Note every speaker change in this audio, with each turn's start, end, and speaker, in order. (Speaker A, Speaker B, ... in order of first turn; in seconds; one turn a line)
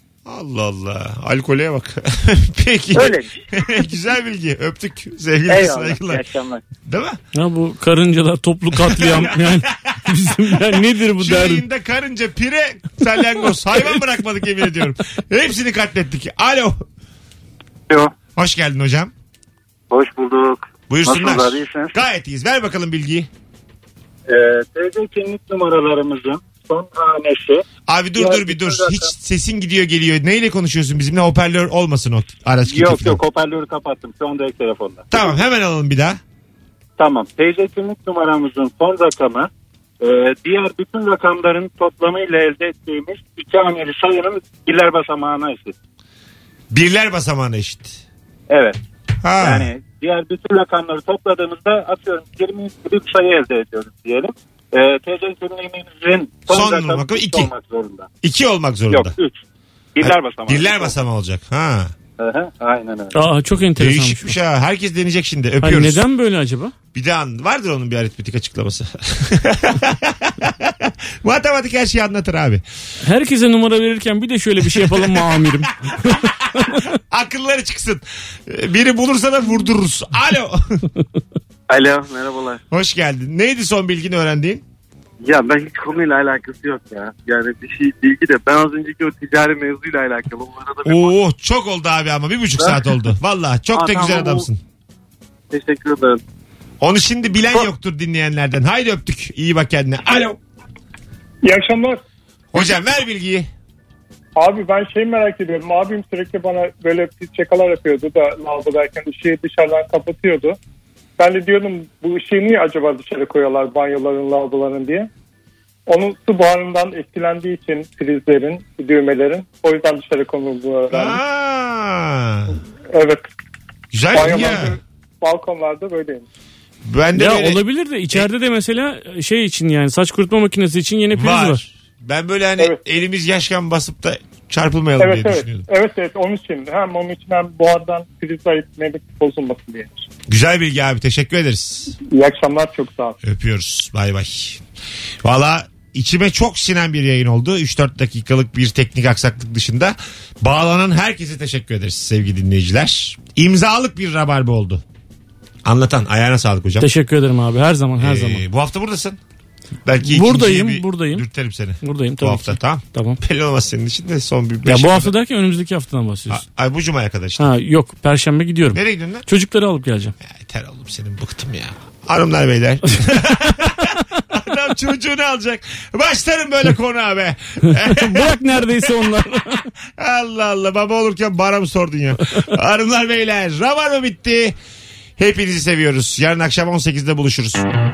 Speaker A: 0.2-6.2
Speaker B: 2.9-3.4
Speaker B: 5.5-6.6
Speaker A: 6.8-7.2
Speaker C: 7.3-11.6
Speaker A: 8.7-16.8
Speaker A: 18.4-19.1
Speaker A: 20.9-23.3
Speaker D: 24.3-27.6
Speaker A: 27.9-33.2
Speaker D: 28.1-29.1
Speaker D: 32.7-35.0
Speaker A: 35.1-36.2
Speaker D: 37.0-39.5
Speaker D: 40.0-45.7
Speaker A: 46.7-48.0
Speaker D: 48.5-48.8
Speaker A: 49.2-49.7
Speaker D: 49.4-58.1
Speaker A: 56.5-57.5
Speaker A: 58.2-59.1
Speaker D: 58.9-59.4
Speaker D: 60.0-61.0
Speaker A: 60.0-61.9
Speaker D: 62.2-63.2
Speaker C: 63.1-64.3
Speaker A: 63.8-66.0
Speaker C: 65.6-66.7
Speaker A: 66.9-72.6
Speaker C: 73.0-76.9
Speaker A: 74.6-80.9
Speaker B: 81.7-82.5
Speaker A: 82.7-84.6
Speaker B: 85.2-91.1
Speaker A: 90.8-94.6
Speaker B: 93.8-94.4
Speaker B: 95.5-96.2
Speaker A: 96.8-100.4
Speaker E: 101.4-102.0
Speaker A: 102.5-103.5
Speaker E: 104.3-110.6
Speaker E: 111.2-115.1
Speaker E: 115.9-121.2
Speaker A: 120.9-122.6
Speaker E: 122.5-123.3
Speaker A: 123.9-124.8
Speaker E: 124.1-126.2
Speaker A: 126.8-128.2
Speaker C: 127.1-131.6
Speaker A: 131.1-135.6
Speaker E: 135.0-140.1
Speaker A: 140.3-141.9
Speaker E: 142.1-143.2
Speaker A: 143.2-144.6
Speaker A: 145.2-154.8
Speaker A: 155.6-156.9
Speaker C: 156.8-158.4
Speaker A: 158.0-159.2
Speaker A: 159.8-165.1
Speaker C: 160.0-161.2
Speaker C: 161.8-163.2
Speaker C: 164.6-166.4
Speaker A: 166.3-167.5
Speaker C: 167.4-170.1
Speaker A: 168.7-169.2
Speaker A: 170.2-179.1
Speaker C: 177.7-179.6
Speaker A: 180.0-184.6
Speaker A: 185.2-187.7